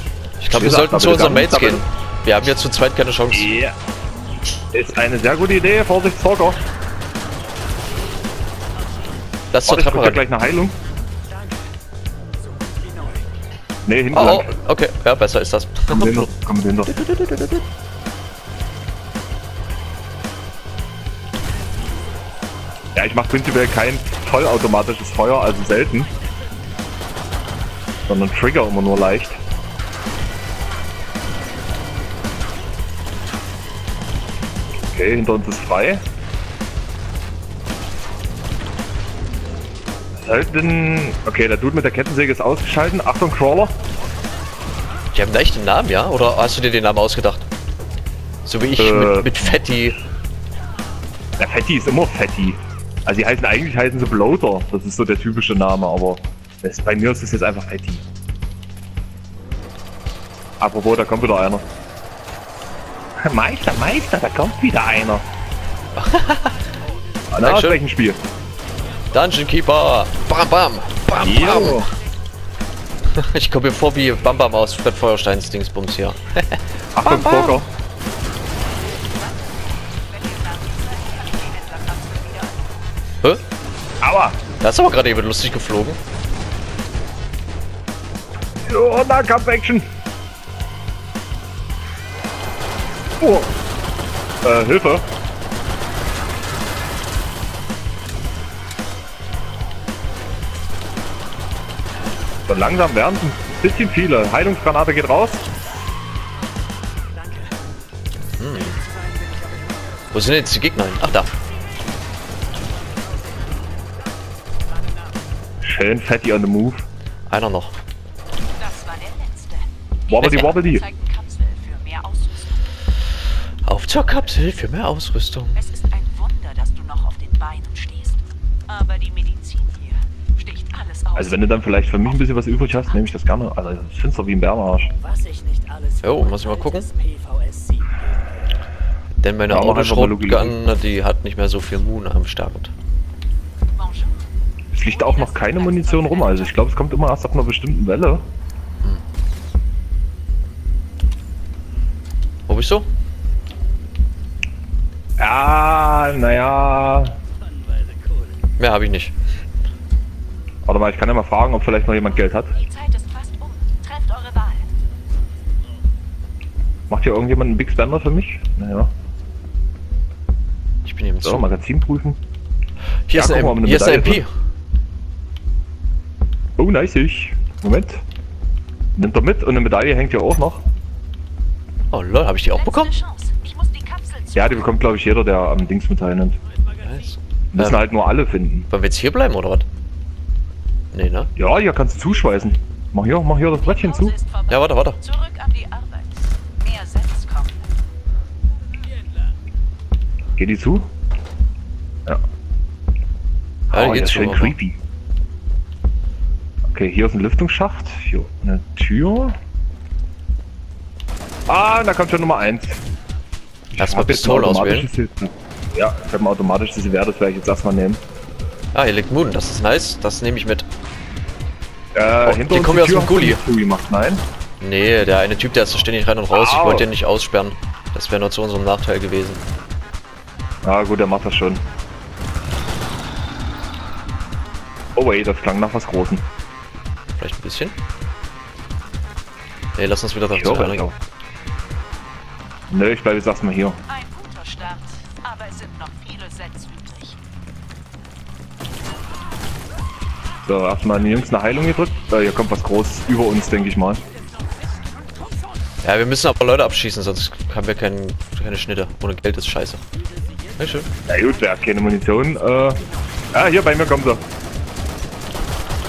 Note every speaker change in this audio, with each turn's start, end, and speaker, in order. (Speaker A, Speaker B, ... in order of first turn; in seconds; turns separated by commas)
Speaker A: 0.4-3.5, Speaker B: 0.5-1.8, Speaker B: 3.3-3.7, Speaker B: 4.7-6.6, Speaker A: 9.5-10.2, Speaker B: 9.7-10.7, Speaker B: 13.8-14.5, Speaker A: 14.1-16.3, Speaker B: 15.9-16.9, Speaker A: 16.9-17.6, Speaker B: 22.9-26.1, Speaker B: 28.1-29.4, Speaker B: 34.9-36.0, Speaker B: 40.2-43.7, Speaker A: 45.1-47.5, Speaker A: 48.4-50.0, Speaker B: 48.8-49.6, Speaker B: 51.4-58.0, Speaker B: 60.6-61.6, Speaker B: 63.2-65.2, Speaker A: 66.0-66.6, Speaker B: 67.3-68.2, Speaker A: 67.4-67.8, Speaker A: 69.1-71.9, Speaker B: 71.2-71.9, Speaker A: 73.1-77.6, Speaker B: 77.0-77.7, Speaker C: 78.9-82.7, Speaker B: 84.0-84.4, Speaker A: 84.6-86.0, Speaker B: 88.7-89.8, Speaker B: 93.2-93.5, Speaker B: 94.4-95.1, Speaker B: 102.5-105.5, Speaker A: 108.4-108.8, Speaker A: 110.1-111.3, Speaker B: 115.6-116.8, Speaker A: 117.3-117.8, Speaker C: 118.5-122.7, Speaker B: 120.1-120.8, Speaker A: 120.2-120.5, Speaker A: 123.6-125.6, Speaker C: 125.5-132.1, Speaker B: 131.1-134.9, Speaker A: 136.0-136.9, Speaker A: 139.2-142.7, Speaker B: 139.5-140.6, Speaker C: 143.7-146.7, Speaker B: 144.7-148.2, Speaker A: 152.5-152.9, Speaker B: 155.2-157.2, Speaker A: 158.6-159.1, Speaker B: 160.7-162.5, Speaker C: 162.5-164.7, Speaker B: 166.9-168.9, Speaker A: 170.8-171.6, Speaker B: 171.2-172.2, Speaker A: 173.1-174.3, Speaker B: 173.1-174.2, Speaker B: 176.6-178.0, Speaker B: 179.0-180.6, Speaker A: 181.9-182.9, Speaker C: 182.5-184.8, Speaker B: 184.3-186.4, Speaker A: 186.8-187.8, Speaker B: 187.5-188.7, Speaker A: 188.7-189.7, Speaker A: 190.9-191.3, Speaker B: 191.3-194.1, Speaker C: 193.5-197.7, Speaker A: 194.5-195.0, Speaker B: 200.4-200.9, Speaker A: 203.7-204.5, Speaker B: 203.7-204.8, Speaker B: 206.7-209.4, Speaker B: 211.5-212.8, Speaker B: 213.7-218.0, Speaker A: 213.8-214.9, Speaker A: 218.7-220.7, Speaker B: 221.9-224.2, Speaker A: 222.1-223.4, Speaker A: 224.6-229.4, Speaker B: 226.3-226.9, Speaker B: 230.6-231.6, Speaker B: 234.9-236.2, Speaker A: 237.2-237.8, Speaker A: 239.8-240.9, Speaker B: 240.3-240.9, Speaker B: 242.7-243.8, Speaker C: 243.9-247.2, Speaker B: 250.4-254.0, Speaker A: 255.8-259.8, Speaker A: 260.6-260.9, Speaker B: 261.1-262.8, Speaker B: 263.3-264.2